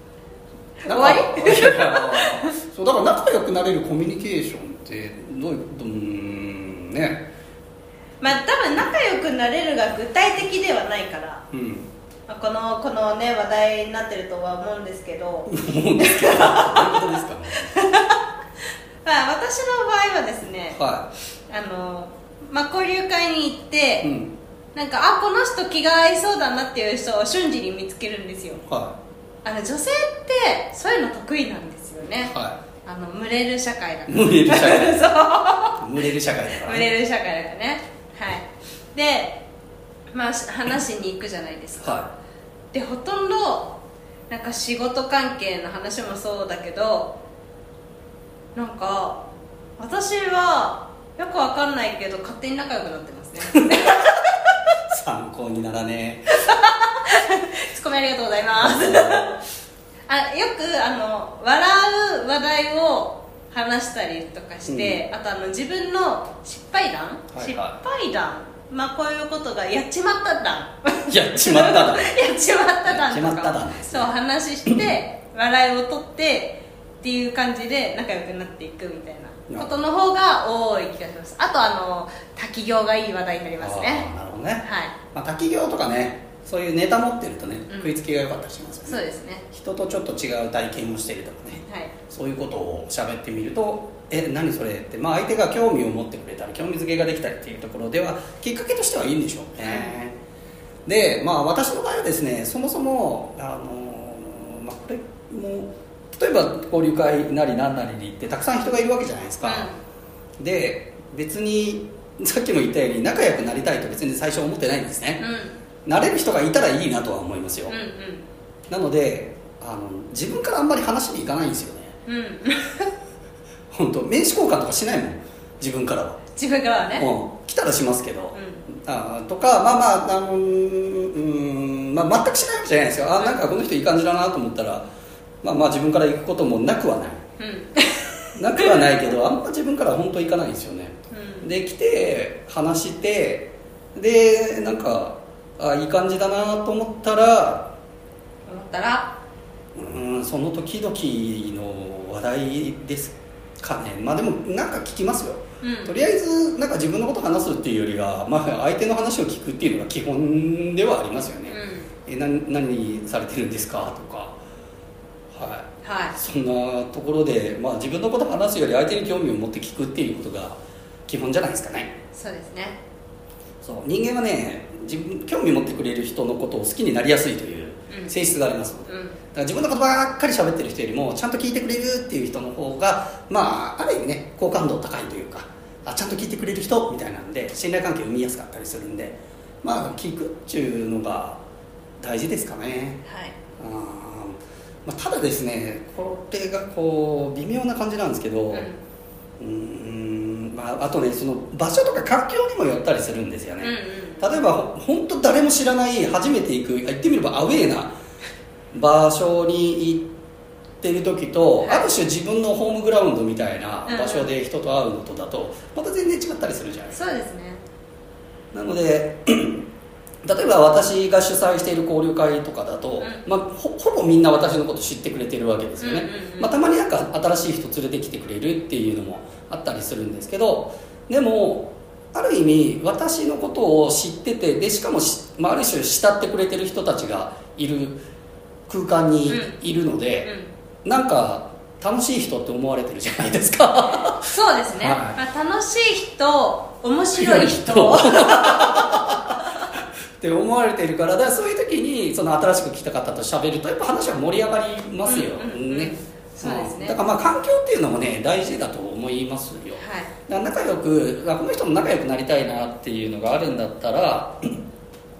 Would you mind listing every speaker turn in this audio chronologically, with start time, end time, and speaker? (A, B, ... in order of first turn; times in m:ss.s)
0:00.8-0:02.5 A
0:00.8-0:07.3 B
0:08.2-0:11.4 A
0:11.5-0:11.9 B
0:12.3-0:18.2 A
0:15.5-0:17.8 B
0:19.0-0:20.8 A
0:20.7-0:21.1 B
0:21.5-0:24.1 A
0:24.0-0:24.3 B
0:24.8-0:28.6 A
0:28.6-0:29.0 B
0:29.4-0:32.3 A
0:32.3-0:32.6 B
0:32.8-0:35.8 A
0:34.1-0:35.2 B
0:35.8-0:36.9 B
0:36.6-0:39.4 A
0:40.1-0:42.0 A
0:41.8-0:42.1 B
0:42.7-0:43.8 A
0:44.3-0:47.2 A
0:48.6-0:49.2 A
0:49.8-0:54.2 A
0:53.6-0:54.1 B
0:54.9-0:56.4 B
0:56.3-0:59.4 A
0:58.6-0:59.4 B
1:00.1-1:24.1 A
1:04.6-1:05.0 B
1:07.3-1:07.8 B
1:11.1-1:12.1 B
1:12.8-1:14.1 B
1:19.5-1:19.8 B
1:23.6-1:40.2 B
1:24.6-1:25.0 A
1:28.9-1:29.4 A
1:31.7-1:31.9 A
1:39.6-1:40.0 A
1:40.9-1:49.7 B
1:49.4-1:49.8 A
1:50.4-1:55.2 B
1:55.2-1:55.6 A
1:55.8-1:57.8 B
1:57.7-1:58.2 A
1:58.7-2:02.0 B
2:02.1-2:02.9 A
2:03.7-2:06.2 B
2:06.4-2:07.1 A
2:07.0-2:14.9 B
2:08.3-2:08.6 A
2:15.4-2:17.2 B
2:17.4-2:19.0 A
2:18.4-2:27.7 B
2:21.1-2:21.5 A
2:28.5-2:29.2 A
2:29.8-2:44.4 B
2:35.6-2:36.0 A
2:41.5-2:41.9 A
2:45.3-2:51.9 B
2:45.8-2:46.2 A
2:52.1-2:52.8 A
2:53.6-3:11.4 B
2:57.9-2:58.2 A
2:58.9-2:59.2 A
3:12.0-3:13.0 B
3:13.0-3:13.4 A
3:13.6-3:18.7 B
3:18.5-3:18.8 A
3:19.4-3:27.9 B
3:23.6-3:24.4 A
3:28.7-3:30.1 B
3:30.8-3:37.0 B
3:31.6-3:31.9 A
3:33.9-3:34.3 A
3:36.9-3:37.6 A
3:38.5-3:39.7 B
3:40.2-3:58.0 B
3:43.0-3:43.2 A
3:45.8-3:46.6 A
3:58.7-4:00.3 B
3:59.3-3:59.6 A
4:00.2-4:00.5 A
4:00.8-4:05.2 B
4:04.3-4:09.0 A
4:07.1-4:09.4 B
4:10.2-4:24.6 B
4:15.1-4:17.0 A
4:19.8-4:20.1 A